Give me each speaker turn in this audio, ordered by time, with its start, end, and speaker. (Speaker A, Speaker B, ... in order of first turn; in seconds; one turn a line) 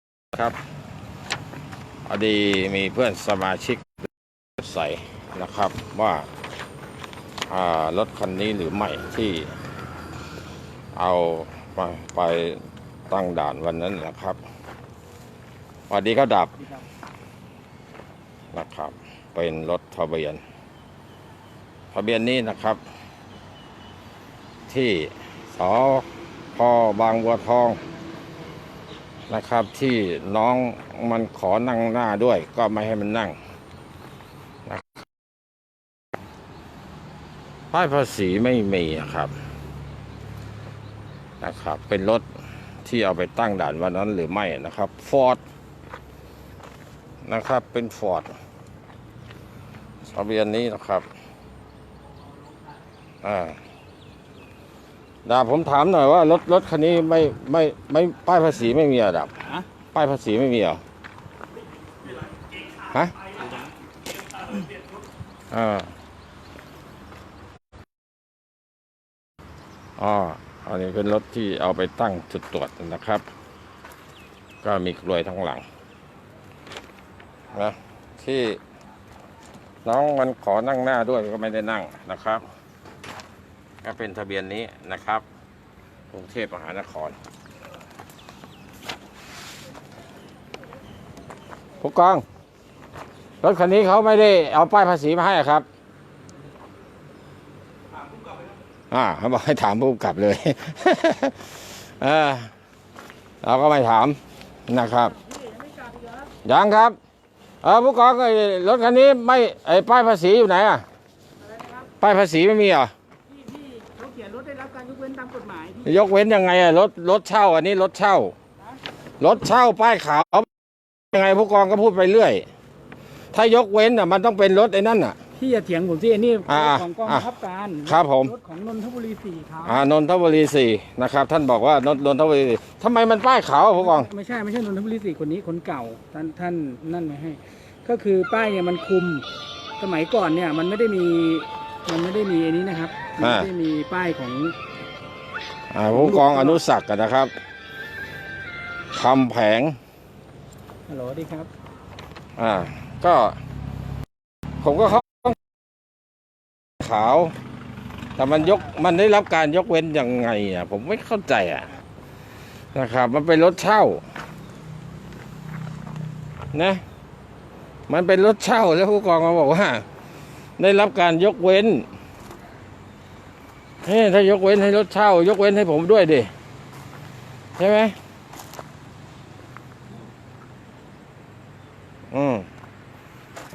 Speaker A: 2.1-3.9
Speaker A: 4.6-6.3
Speaker A: 7.5-9.5
Speaker A: 10.9-14.4
Speaker A: 15.9-16.5
Speaker A: 18.5-20.4
Speaker A: 21.9-22.8
Speaker A: 24.7-27.8
Speaker A: 29.3-33.4
Speaker A: 34.6-35.0
Speaker A: 37.7-39.3
Speaker A: 41.4-42.2
Speaker A: 42.8-45.4
Speaker A: 47.2-48.3
Speaker A: 50.1-51.0
Speaker A: 53.2-53.6
Speaker A: 55.2-60.8
Speaker A: 62.8-63.1
Speaker A: 65.5-65.9
Speaker A: 70.0-73.2
Speaker A: 74.6-75.6
Speaker A: 77.5-78.6
Speaker A: 79.8-82.4
Speaker A: 83.8-85.2
Speaker A: 86.1-87.2
Speaker A: 91.8-92.2
Speaker A: 93.4-95.6
Speaker A: 98.9-102.5
Speaker A: 103.4-105.2
Speaker B: 105.6-106.1
Speaker A: 106.4-107.0
Speaker A: 107.6-110.8
Speaker A: 112.0-112.9
Speaker B: 113.4-115.8
Speaker A: 115.8-118.3
Speaker A: 119.2-122.5
Speaker A: 123.3-125.2
Speaker B: 125.3-129.8
Speaker A: 126.5-127.3
Speaker A: 127.8-128.3
Speaker A: 129.6-134.1
Speaker B: 133.8-139.3
Speaker B: 139.8-144.5
Speaker A: 143.2-143.5
Speaker A: 145.7-147.3
Speaker B: 145.9-146.6
Speaker A: 148.9-149.8
Speaker B: 150.9-151.5
Speaker A: 152.4-153.4
Speaker A: 154.6-155.4
Speaker A: 156.8-157.3
Speaker A: 158.2-161.7
Speaker A: 162.7-164.0
Speaker A: 166.5-166.8
Speaker A: 167.9-169.8
Speaker A: 170.6-171.8
Speaker A: 173.8-176.3
Speaker A: 177.6-177.9
Speaker A: 182.1-182.5